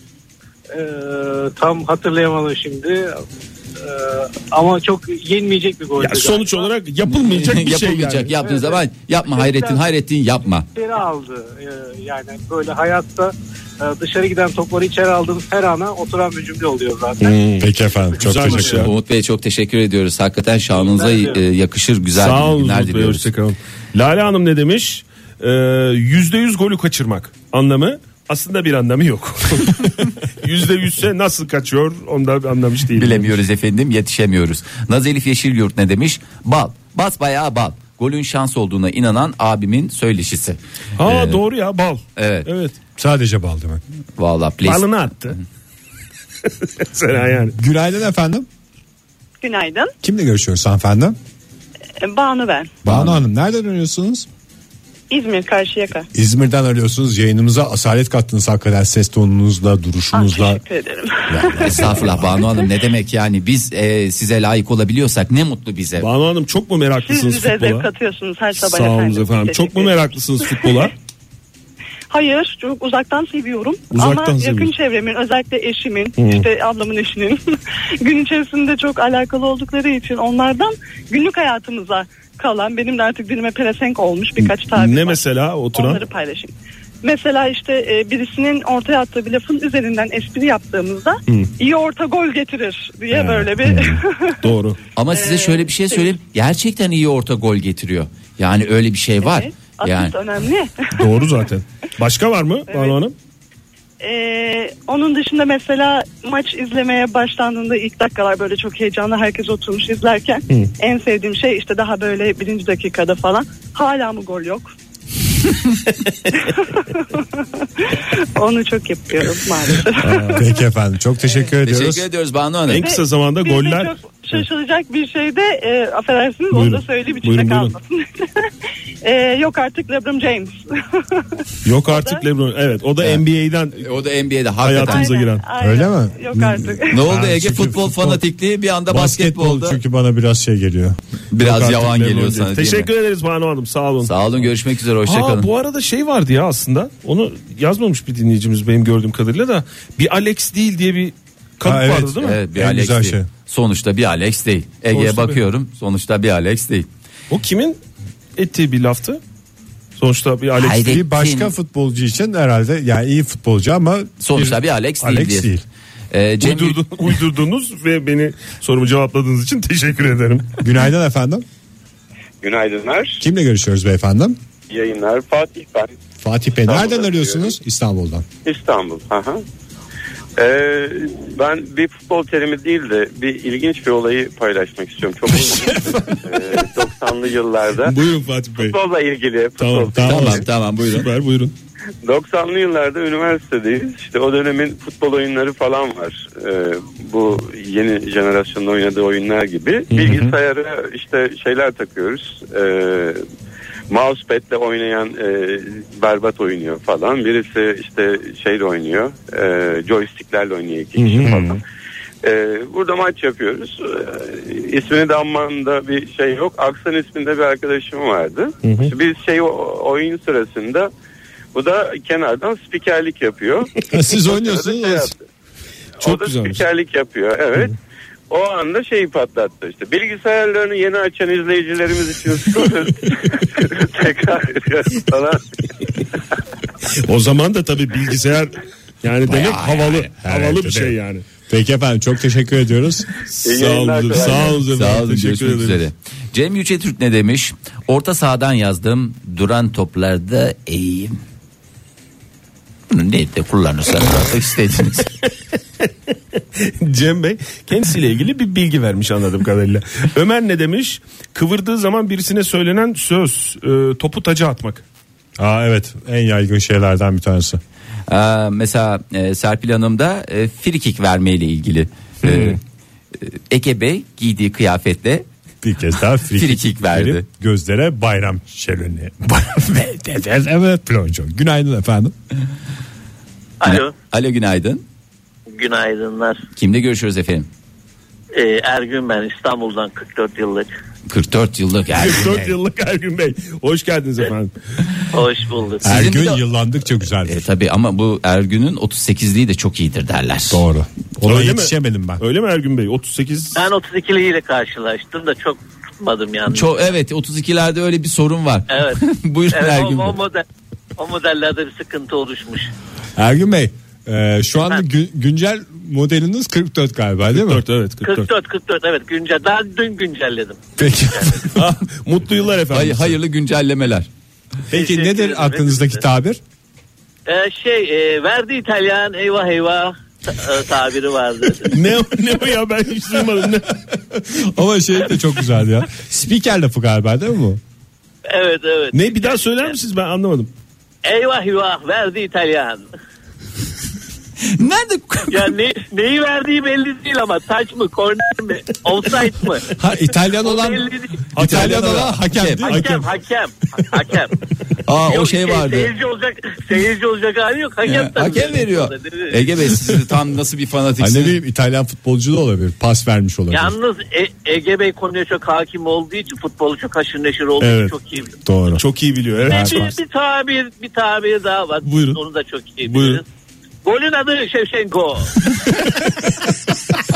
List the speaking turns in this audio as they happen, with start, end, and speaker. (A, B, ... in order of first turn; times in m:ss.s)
0:00.7-0:03.2 A
0:03.8-0:06.7 A
0:06.0-0:08.3 B
0:07.1-0:10.7 C
0:08.4-0:09.9 A
0:10.7-0:17.6 A
0:17.2-0:18.9 B
0:17.6-0:18.9 D
0:18.1-0:18.6 A
0:18.7-0:23.3 C
0:20.7-0:21.4 A
0:22.2-0:33.4 B
0:33.0-0:41.4 C
0:41.0-0:42.8 B
0:42.2-0:42.5 C
0:43.0-0:43.8 D
0:44.2-0:45.4 C
0:44.6-0:45.4 B
0:46.6-0:47.6 B
0:47.6-0:48.5 D
0:49.4-0:49.9 E
0:50.0-0:51.2 D
0:52.0-0:52.7 E
0:52.8-0:54.3 D
0:52.9-0:53.1 C
0:55.1-0:56.1 E
0:56.1-1:00.6 D
1:00.1-1:01.9 E
1:01.3-1:02.4 D
1:01.6-1:06.1 C
1:06.0-1:07.9 B
1:07.0-1:10.0 E
1:08.6-1:10.9 B
1:10.5-1:10.9 E
1:12.1-1:25.2 E
1:13.9-1:14.7 B
1:16.2-1:16.4 B
1:24.4-1:26.0 B
1:25.7-1:34.5 E
1:33.1-1:33.9 B
1:34.4-1:34.8 B
1:35.0-1:40.1 C
1:35.1-1:36.2 E
1:39.2-1:41.4 E
1:40.9-1:43.1 B
1:42.7-1:43.0 E
1:44.0-1:54.7 E
1:56.3-2:00.5 E
2:00.0-2:00.5 B
2:00.3-2:02.1 D
2:01.6-2:02.8 C
2:02.7-2:04.4 B
2:02.8-2:08.5 E
2:06.5-2:07.8 B
2:09.0-2:12.2 E
2:11.6-2:13.9 B
2:13.8-2:15.0 C
2:14.6-2:15.4 B
2:14.8-2:17.0 E
2:15.6-2:18.2 D
2:16.9-2:19.8 C
2:18.9-2:21.0 D
2:21.3-2:22.9 C
2:21.4-2:24.2 B
2:24.0-2:25.5 C
2:25.0-2:32.4 B
2:31.6-2:33.3 D
2:32.2-2:36.9 C
2:34.9-2:35.4 B
2:37.3-2:37.8 B
2:38.4-2:39.2 B
2:40.0-2:40.9 B
2:40.6-2:41.5 C
2:40.7-2:45.6 D
2:44.2-2:45.5 C
2:46.1-2:46.8 C
2:46.4-2:50.6 B
2:50.6-2:51.4 D
2:52.4-2:53.2 F
2:53.2-2:54.4 D
2:54.7-2:55.9 F
2:56.2-2:58.2 D
2:56.7-2:57.5 F
2:58.4-2:59.4 F
3:00.4-3:08.0 F
3:05.4-3:06.2 B
3:07.8-3:08.8 B
3:08.6-3:10.4 F
3:09.6-3:11.5 B
3:10.0-3:11.1 C
3:12.0-3:23.2 F
3:19.9-3:20.2 B
3:23.9-3:31.6 F
3:31.0-3:31.3 B
3:31.2-3:31.6 D
3:32.2-3:40.9 F
3:38.6-3:38.9 B
3:41.5-3:45.2 F
3:43.9-3:45.1 D
3:46.0-3:47.8 F
3:46.0-3:46.6 B
3:48.3-3:55.4 F
3:56.9-4:01.3 B
3:59.2-4:00.1 C
4:00.2-4:01.0 D
4:01.5-4:03.1 D
4:03.3-4:05.8 B
4:03.4-4:04.6 F
4:04.7-4:11.2 C
4:12.9-4:15.1 C
4:16.6-4:24.8 B
4:25.4-4:27.6 D
4:28.1-4:32.6 C
4:32.2-4:32.6 D
4:33.2-4:35.3 C
4:35.6-4:42.1 D
4:36.3-4:37.3 C
4:43.6-4:43.9 G
4:43.6-4:44.8 C
4:45.5-4:46.4 G
4:46.6-4:47.5 C
4:48.3-4:50.7 G
4:51.1-4:52.5 C
4:51.9-4:54.5 B
4:55.1-4:56.1 G
4:55.8-4:56.4 C
4:55.8-4:57.5 D
4:57.2-5:00.6 C
5:00.5-5:02.2 D
5:01.2-5:03.6 B
5:03.6-5:06.9 G
5:06.5-5:10.2 C
5:08.7-5:10.4 G
5:11.0-5:12.7 G
5:13.2-5:17.6 D
5:17.3-5:18.3 B
5:18.0-5:20.6 G
5:20.8-5:21.7 D
5:21.1-5:21.4 G
5:21.6-5:23.2 B
5:22.7-5:24.1 C
5:24.7-5:26.4 D
5:24.7-5:26.0 G
5:27.3-5:31.8 G
5:31.7-5:33.8 B
5:34.1-5:37.6 D
5:38.3-5:39.8 G
5:38.9-5:40.5 B
5:41.0-5:42.9 G
5:44.4-5:45.6 C
5:45.3-5:49.7 G
5:49.7-5:53.0 D
5:50.4-5:51.3 G
5:51.3-5:53.1 B
5:51.4-5:52.8 C
5:52.7-5:54.4 G
5:54.8-5:55.9 C
5:55.1-5:59.5 G
5:57.8-6:01.4 C
6:01.0-6:03.8 D
6:03.5-6:08.4 G
6:07.6-6:08.0 B
6:08.5-6:08.8 D
6:08.8-6:09.9 B
6:09.5-6:09.9 D
6:09.5-6:13.2 G
6:11.8-6:12.2 B
6:12.8-6:13.2 B
6:13.8-6:15.4 G
6:15.7-6:16.3 B